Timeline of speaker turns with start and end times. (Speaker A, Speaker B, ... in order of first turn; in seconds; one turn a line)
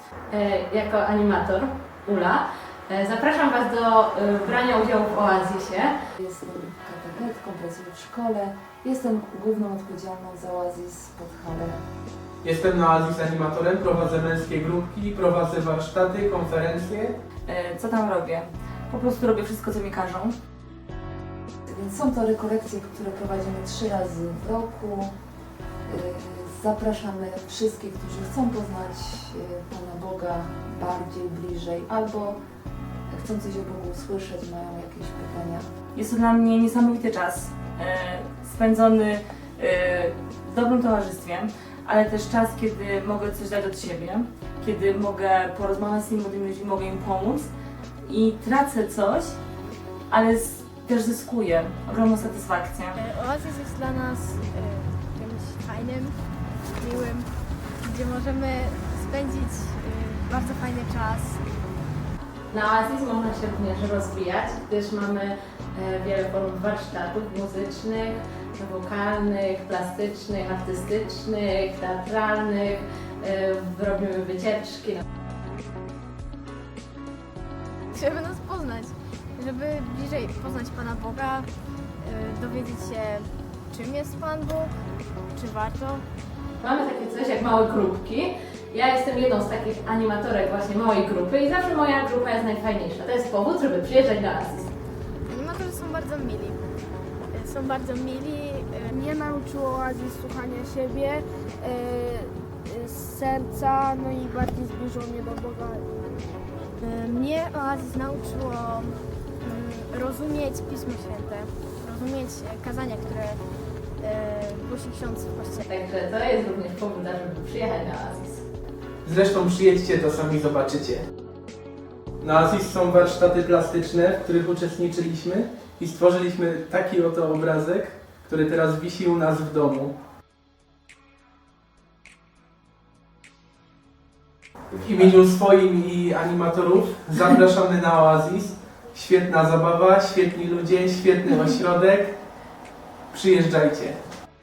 Speaker A: 0.3-6.0
Speaker B: 6.2-11.8
Speaker C: 12.4-17.2
Speaker D: 17.4-20.4
Speaker B: 21.7-25.1
Speaker B: 25.9-32.4
Speaker B: 33.1-35.7
Speaker D: 36.0-47.5
Speaker D: 48.0-49.4
Speaker D: 50.1-53.0
Speaker E: 52.9-56.2
Speaker E: 56.8-61.5
Speaker A: 62.5-75.0
Speaker E: 77.9-84.8
Speaker E: 85.3-86.1
Speaker A: 86.6-94.7
Speaker E: 95.2-96.8
Speaker E: 97.3-98.9
Speaker F: 98.9-105.9
Speaker E: 106.8-113.5
Speaker E: 114.0-115.6
Speaker A: 115.7-118.5
Speaker C: 119.0-121.0
Speaker C: 122.2-129.9
Speaker C: 134.7-142.2
Speaker C: 143.1-144.0